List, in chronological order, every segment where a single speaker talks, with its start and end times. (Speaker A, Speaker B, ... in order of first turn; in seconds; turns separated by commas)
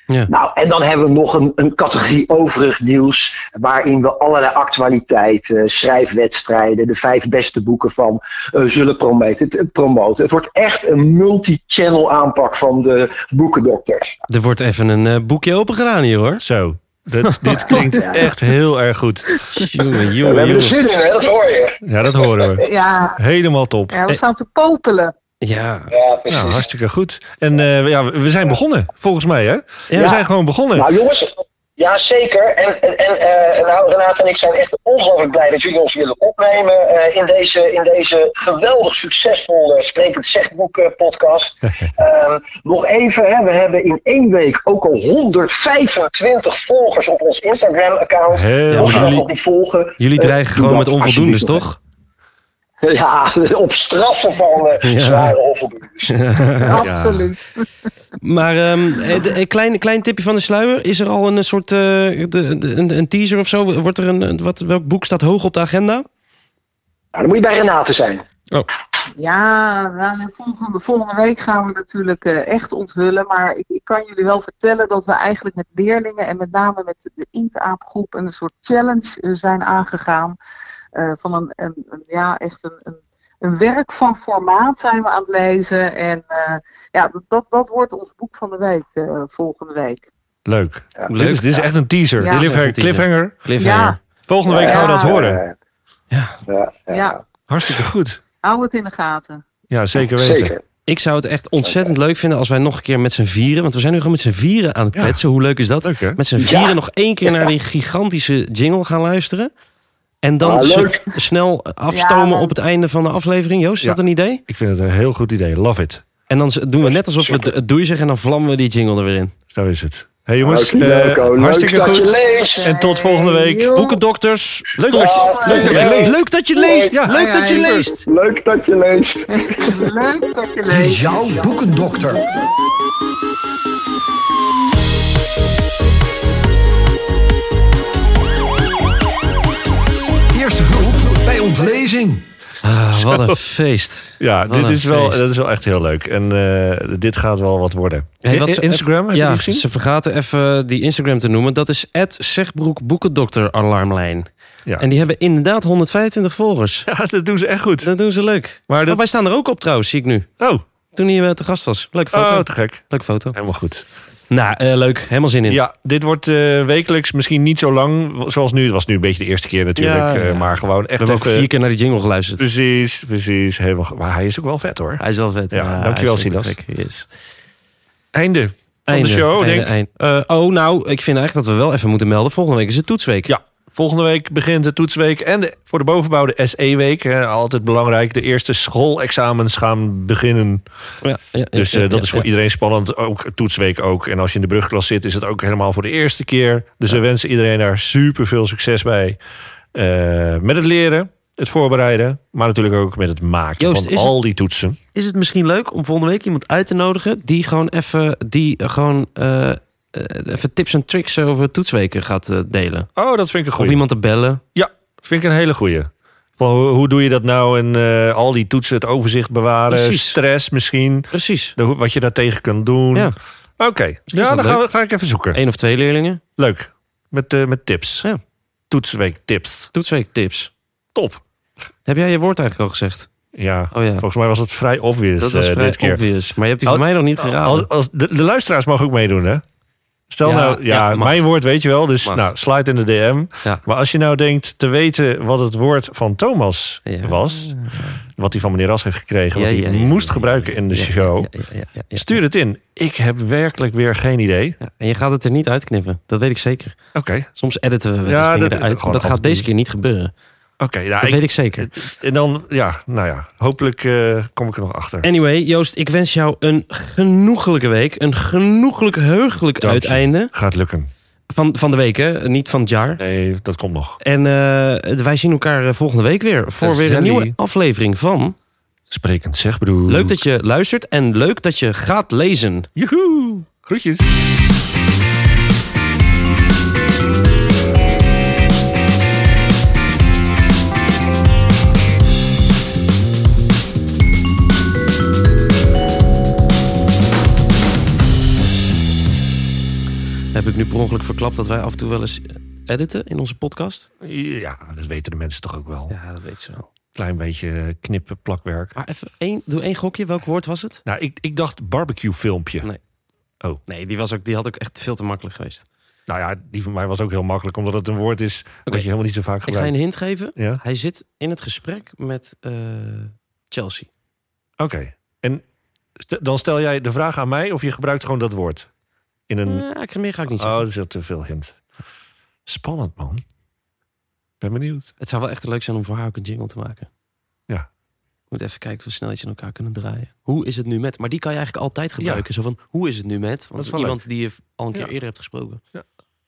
Speaker A: 0.3-14.2, Speaker B: 14.3-16.4, Speaker C: 16.4-19.3, Speaker B: 17.3-17.8, Speaker D: 17.9-18.2, Speaker B: 19.4-20.8, Speaker A: 20.2-22.6, Speaker C: 21.9-22.6, Speaker D: 22.6-23.2, Speaker C: 23.1-24.0, Speaker D: 23.9-25.1, Speaker B: 25.4-25.9, Speaker A: 25.9-26.7, Speaker C: 26.3-30.9, Speaker B: 29.9-30.2, Speaker A: 30.0-30.2, Speaker A: 30.8-51.7, Speaker C: 48.3-49.2, Speaker B: 48.7-49.3, Speaker B: 50.0-51.8, Speaker A: 52.8-56.2, Speaker B: 54.8-55.4, Speaker B: 56.1-56.8, Speaker D: 56.6-57.6, Speaker C: 56.8-57.3, Speaker B: 58.2-66.1, Speaker A: 67.1-68.2, Speaker D: 69.2-80.4, Speaker D: 81.0-90.1, Speaker C: 90.5-93.5, Speaker B: 91.1-91.7, Speaker B: 92.2-94.0, Speaker D: 92.2-92.5, Speaker D: 93.6-94.0, Speaker C: 94.3-95.4, Speaker A: 94.5-95.5, Speaker D: 94.6-95.3, Speaker B: 96.1-96.4, Speaker A: 96.5-97.2, Speaker D: 96.9-97.2, Speaker C: 97.5-98.2, Speaker D: 98.4-99.4, Speaker C: 99.7-100.5, Speaker A: 100.0-100.6, Speaker B: 100.9-109.5, Speaker A: 101.7-101.9, Speaker C: 104.9-105.2, Speaker C: 105.8-106.2, Speaker A: 106.4-107.5, Speaker B: 110.2-114.4, Speaker A: 110.4-111.0, Speaker D: 111.9-112.5, Speaker C: 113.8-116.0, Speaker B: 116.3-119.3, Speaker C: 119.5-123.7, Speaker A: 120.4-122.7, Speaker D: 122.3-124.0, Speaker B: 123.7-124.8, Speaker C: 124.8-126.2, Speaker A: 124.9-127.0, Speaker D: 124.9-126.0, Speaker B: 125.4-128.1, Speaker D: 127.1-127.8, Speaker A: 128.1-129.9, Speaker D: 129.4-131.5, Speaker E: 130.7-132.3, Speaker E: 140.3-142.3, Speaker B: 142.6-145.3, Speaker C: 142.9-143.4, Speaker C: 144.2-149.7, Speaker B: 148.2-154.3, Speaker B: 154.8-156.9, Speaker C: 156.9-157.9, Speaker B: 157.8-160.3, Speaker C: 158.7-159.0, Speaker B: 160.9-163.4, Speaker C: 162.1-163.8, Speaker B: 164.3-165.6, Speaker C: 165.5-171.5, Speaker B: 169.8-172.5, Speaker C: 172.4-176.6, Speaker B: 175.0-177.1, Speaker C: 178.1-179.7, Speaker B: 178.9-183.3, Speaker C: 183.3-190.7, Speaker B: 191.0-192.3, Speaker C: 191.6-199.2, Speaker C: 199.7-204.8, Speaker B: 203.6-204.2, Speaker B: 204.9-212.9, Speaker C: 213.0-213.8, Speaker B: 213.6-214.4, Speaker C: 214.6-225.4, Speaker B: 219.7-220.2, Speaker B: 221.1-221.6, Speaker B: 224.1-224.6, Speaker B: 225.3-226.2, Speaker C: 226.4-228.1, Speaker C: 228.7-229.7, Speaker B: 229.7-230.5, Speaker C: 230.9-231.2, Speaker B: 231.9-233.1, Speaker C: 233.3-236.0, Speaker B: 233.7-234.1, Speaker B: 235.2-237.7, Speaker C: 236.7-239.4, Speaker C: 240.1-251.3, Speaker B: 240.2-241.2, Speaker B: 242.0-242.3, Speaker B: 246.9-248.0, Speaker B: 249.3-252.2, Speaker C: 251.9-254.6, Speaker B: 254.6-256.8, Speaker C: 256.9-257.3, Speaker B: 257.3-260.1, Speaker C: 258.1-259.5, Speaker C: 260.6-265.1, Speaker B: 261.0-261.7, Speaker B: 265.0-270.3, Speaker C: 269.6-270.9, Speaker B: 271.3-273.0, Speaker C: 273.0-274.0, Speaker B: 274.0-278.4, Speaker C: 276.6-277.3, Speaker C: 278.9-280.2, Speaker B: 279.9-282.7, Speaker C: 282.8-284.1, Speaker B: 300.3-303.9, Speaker C: 304.0-305.9, Speaker B: 305.9-306.7, Speaker C: 306.9-308.7, Speaker B: 308.8-310.8, Speaker C: 310.9-312.7, Speaker B: 313.7-315.6, Speaker C: 316.1-319.8, Speaker B: 319.4-323.9, Speaker C: 320.4-320.6, Speaker C: 324.6-325.4, Speaker C: 326.0-328.7, Speaker C: 329.3-329.7, Speaker B: 329.4-330.6, Speaker C: 330.4-331.6, Speaker C: 332.5-333.2, Speaker C: 334.4-334.9, Speaker B: 335.0-336.9, Speaker B: 338.3-345.6, Speaker C: 342.0-342.2, Speaker C: 343.6-344.0